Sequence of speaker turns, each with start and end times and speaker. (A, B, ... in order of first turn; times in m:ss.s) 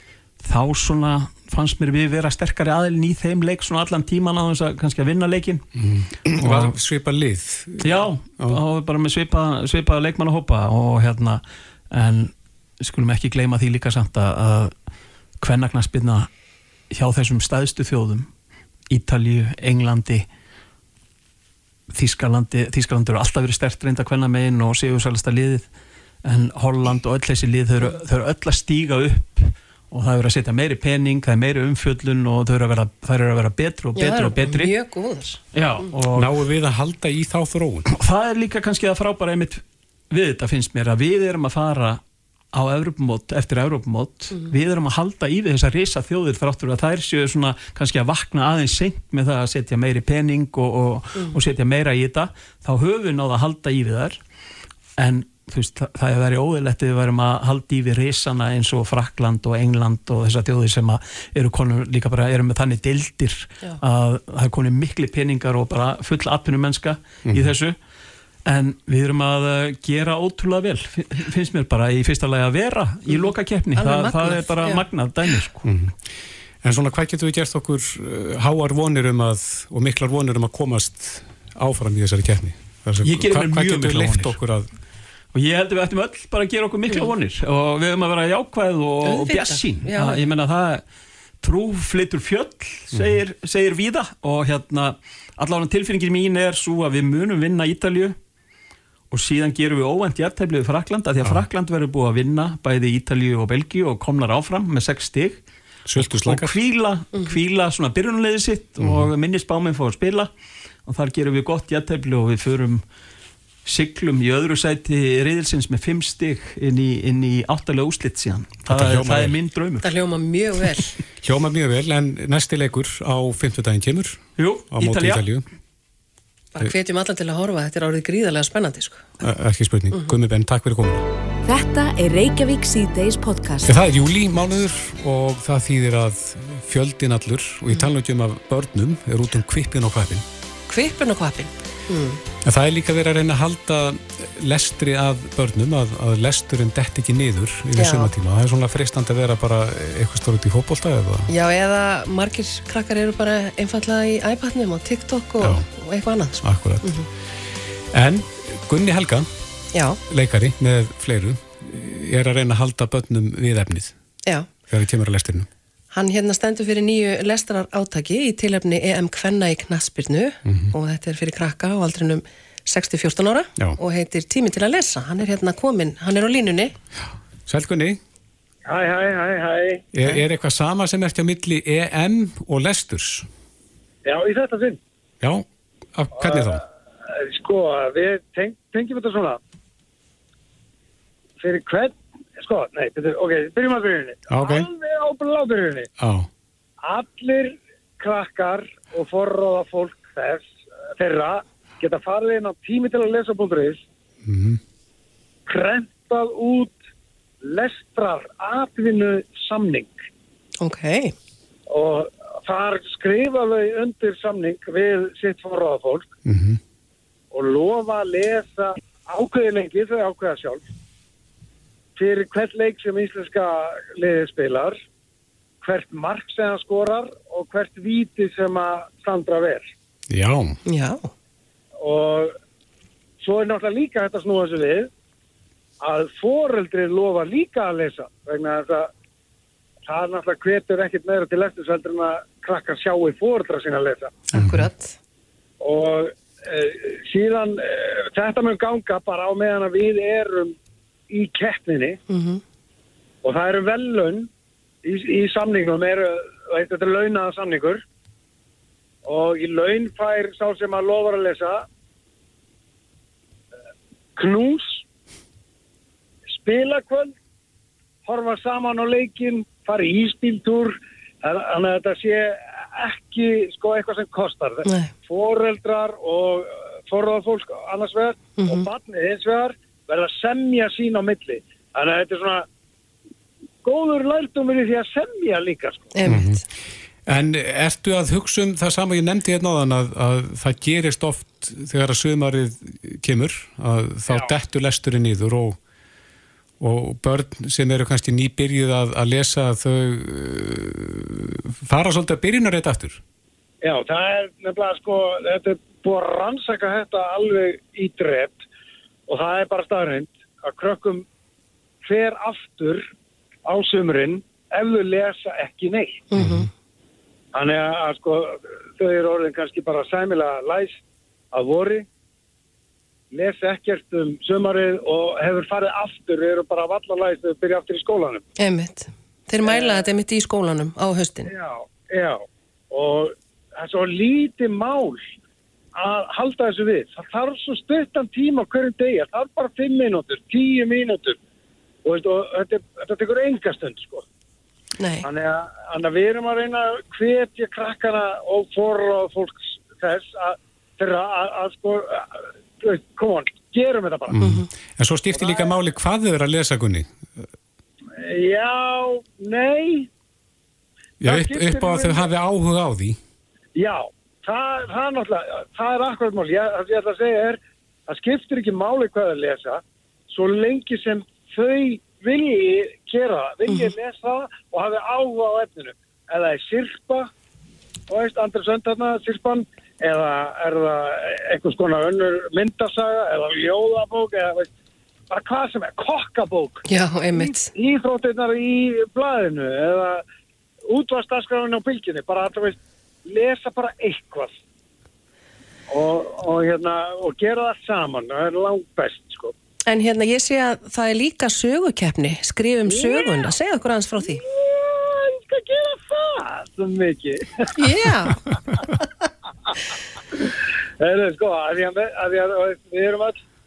0:00.4-0:05.6 A
0:05.8-0:08.6 B
0:06.3-0:06.8 A
0:07.8-0:14.7 A
0:15.4-0:16.3 A
0:16.9-0:18.3 A
0:18.9-0:20.2 A
0:21.9-0:25.7 A
0:26.2-0:34.7 A
0:34.0-0:35.4 C
0:35.5-0:36.4 A
0:36.0-0:37.9 B
0:37.9-0:42.0 A
0:42.5-0:54.2 A
0:55.0-1:07.8 A
1:07.3-1:07.5 B
1:08.4-1:15.7 A
1:13.1-1:15.4 C
1:15.6-1:24.7 B
1:23.0-1:24.4 A
1:25.3-1:30.8 A
1:29.0-1:30.2 C
1:31.4-1:38.2 A
1:32.9-1:33.2 B
1:39.1-1:45.4 A
1:45.9-1:46.6 B
1:46.0-1:50.3 A
1:48.8-1:49.1 B
1:50.9-1:52.8 A
1:53.6-1:59.9 A
1:58.7-1:59.4 B
1:59.8-2:01.0 C
2:01.2-2:05.4 B
2:04.4-2:05.2 A
2:06.5-2:09.2 C
2:09.2-2:11.0 B
2:11.4-2:13.8 D
2:13.6-2:20.2 B
2:20.7-2:22.2 C
2:22.4-2:31.3 B
2:27.8-2:28.1 C
2:31.3-2:37.1 C
2:35.4-2:35.7 B
2:36.4-2:37.0 B
2:37.9-2:39.3 B
2:39.7-2:40.0 C
2:40.0-2:43.9 B
2:44.2-2:44.5 C
2:44.7-2:45.5 B
2:45.9-2:56.7 C
2:50.4-2:50.7 B
2:57.4-2:58.0 B
2:58.6-2:59.9 E
2:59.9-3:03.3 B
3:04.0-3:04.8 E
3:05.2-3:06.6 B
3:06.2-3:09.4 E
3:11.4-3:15.9 E
3:14.3-3:14.7 B
3:16.0-3:16.3 B
3:16.9-3:23.8 E
3:24.2-3:24.6 B
3:25.5-3:26.8 E
3:27.4-3:29.9 E
3:30.6-3:31.1 C
3:31.7-3:36.1 E
3:36.2-3:36.6 B
3:37.3-3:40.6 E
3:42.0-3:44.8 E
3:45.6-3:49.7 E
3:50.1-3:50.6 B
3:50.6-3:51.1 C
3:51.8-3:52.4 E
3:53.2-3:54.9 E
3:55.8-3:58.9 E
3:59.9-4:04.2 E
4:04.3-4:05.0 C
4:04.3-4:04.7 B
4:05.6-4:10.5 E
4:11.1-4:12.0 E
4:12.1-4:12.4 C
4:13.2-4:14.3 E
4:14.8-4:17.8 E
4:19.0-4:21.6 E
4:24.2-4:24.8 E
4:26.3-4:27.1 E
4:28.0-4:42.4 E
4:38.4-4:38.7 C
4:43.6-4:45.9 E
4:45.9-4:46.4 C
4:46.0-4:46.4 B
4:47.0-4:55.6 B
4:56.6-5:03.0 B
5:03.6-5:08.4 E
5:09.1-5:11.0 E
5:11.8-5:12.9 E
5:13.4-5:16.0 E
5:16.1-5:16.5 C
5:16.2-5:16.5 B
5:17.3-5:20.8 E
5:21.3-5:21.9 E
5:23.1-5:28.2 E
5:28.4-5:31.3 C
5:29.4-5:29.9 E
5:31.3-5:35.1 E
5:35.8-5:41.2 E
5:41.8-5:44.0 E
5:44.8-5:45.0 C
5:45.0-5:54.2 E
5:54.1-5:57.3 B
5:54.2-5:54.5 C
5:55.1-5:55.5 E
5:57.9-5:59.9 E
6:01.0-6:03.0 B
6:01.0-6:02.1 E
6:03.6-6:17.1 E
6:17.9-6:24.5 E
6:25.1-6:30.0 E
6:26.7-6:27.5 C
6:30.7-6:34.4 E
6:35.7-6:39.3 E
6:39.7-6:44.2 C
6:42.7-6:43.3 E
6:44.0-6:47.7 E
6:47.6-6:48.2 C
6:50.8-6:53.2 E